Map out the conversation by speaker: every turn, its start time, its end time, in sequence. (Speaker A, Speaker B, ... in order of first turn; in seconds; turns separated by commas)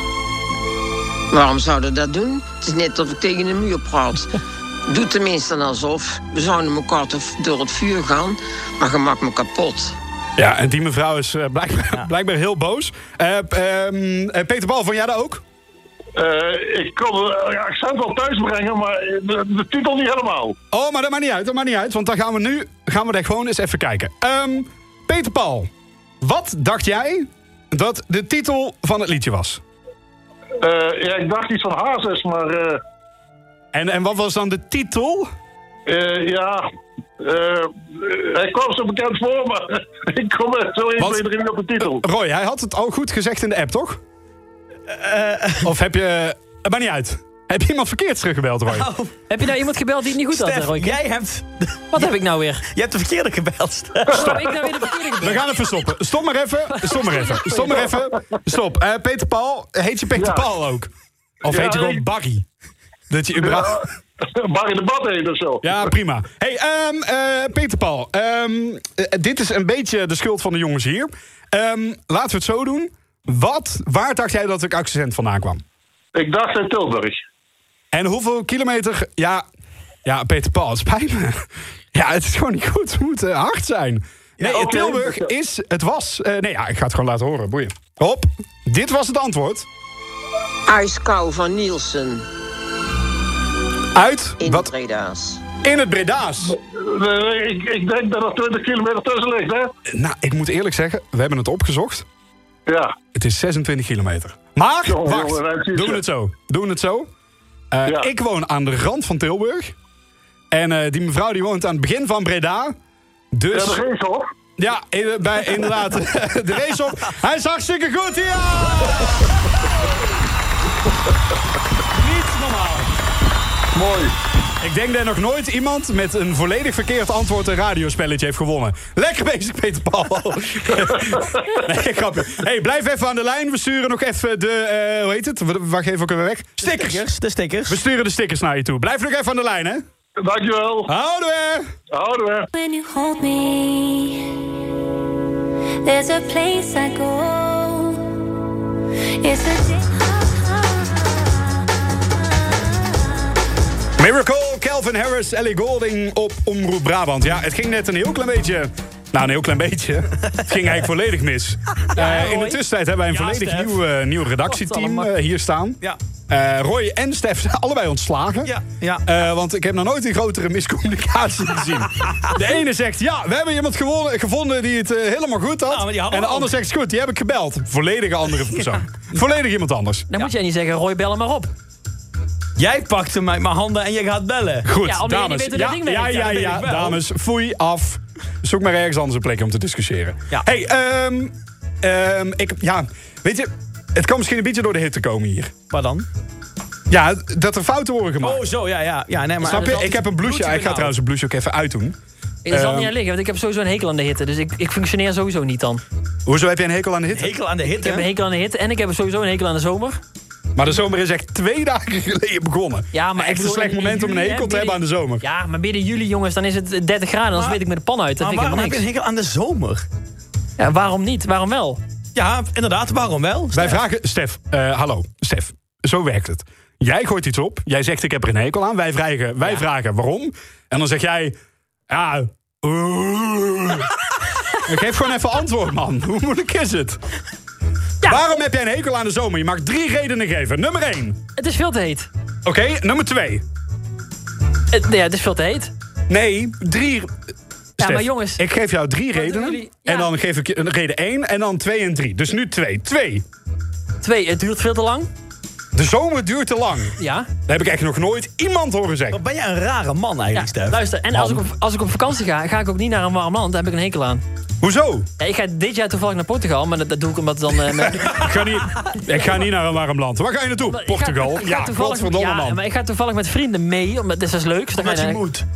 Speaker A: 1.3-10.0, Speaker B: 10.4-15.4, Speaker C: 16.1-20.5, Speaker B: 20.7-29.6, Speaker C: 30.6-32.8, Speaker B: 33.7-35.3, Speaker C: 35.9-36.6, Speaker C: 37.2-42.0, Speaker B: 41.0-41.2, Speaker B: 41.8-44.0, Speaker D: 44.9-45.7, Speaker B: 45.6-48.9, Speaker D: 48.7-49.1, Speaker E: 49.3-51.0, Speaker D: 50.3-52.1, Speaker E: 51.9-52.6, Speaker D: 52.6-54.3, Speaker C: 54.1-54.4, Speaker E: 54.2-55.4, Speaker B: 55.2-60.9, Speaker E: 56.7-57.8, Speaker C: 60.1-60.5, Speaker B: 61.4-62.5, Speaker C: 61.5-62.0, Speaker B: 63.1-63.9, Speaker C: 63.4-65.9, Speaker B: 65.6-75.6, Speaker C: 76.1-77.2, Speaker B: 77.9-79.4, Speaker B: 80.0-89.7, Speaker D: 84.4-85.0, Speaker C: 84.5-85.3, Speaker A: 90.7-92.3, Speaker B: 93.9-94.7, Speaker A: 94.4-95.4, Speaker B: 95.6-96.5, Speaker C: 96.5-99.7, Speaker B: 99.9-102.0, Speaker C: 102.7-102.9, Speaker B: 103.1-107.1, Speaker C: 104.8-106.0, Speaker B: 107.7-109.7, Speaker B: 110.5-112.8, Speaker B: 113.3-113.8, Speaker C: 113.5-114.3, Speaker B: 114.6-119.3, Speaker B: 121.9-123.0, Speaker C: 123.7-124.1, Speaker B: 124.6-137.0, Speaker C: 130.9-131.4, Speaker D: 136.6-137.8, Speaker B: 137.7-139.8, Speaker C: 140.2-140.9, Speaker B: 140.9-141.7, Speaker C: 141.9-142.5, Speaker F: 142.5-144.3, Speaker F: 145.8-148.1, Speaker F: 149.2-151.3, Speaker B: 154.0-168.5, Speaker E: 161.9-162.6, Speaker D: 163.1-163.8, Speaker E: 164.4-165.1, Speaker D: 168.4-169.1, Speaker B: 169.0-180.1, Speaker D: 172.0-172.3, Speaker D: 175.7-176.5, Speaker E: 180.1-181.5, Speaker D: 182.6-184.7, Speaker B: 184.7-195.5, Speaker E: 184.8-186.6, Speaker D: 186.3-187.0, Speaker D: 195.7-196.1, Speaker B: 196.9-198.4, Speaker D: 198.2-200.9, Speaker B: 199.4-202.0, Speaker E: 199.4-199.8, Speaker E: 202.4-205.8, Speaker B: 202.5-202.9, Speaker B: 206.2-207.3, Speaker D: 207.1-208.1, Speaker E: 207.7-210.0, Speaker B: 210.6-215.2, Speaker E: 212.9-218.8, Speaker D: 217.3-217.6, Speaker D: 218.2-219.8, Speaker E: 220.6-221.8, Speaker D: 222.1-223.8, Speaker B: 223.5-231.3, Speaker B: 231.9-233.9, Speaker B: 234.6-237.0, Speaker B: 238.0-241.2, Speaker E: 241.4-242.1, Speaker B: 242.4-243.4, Speaker E: 244.7-245.7, Speaker B: 246.1-247.1, Speaker B: 247.8-253.2, Speaker E: 247.8-248.4, Speaker E: 249.1-250.1, Speaker E: 254.0-255.1, Speaker B: 255.7-259.2, Speaker E: 257.0-257.3, Speaker D: 259.1-260.8, Speaker E: 260.3-264.2, Speaker B: 261.1-261.4, Speaker B: 264.6-265.1, Speaker E: 265.2-268.3, Speaker B: 268.0-272.6, Speaker E: 270.7-275.2, Speaker D: 274.8-275.4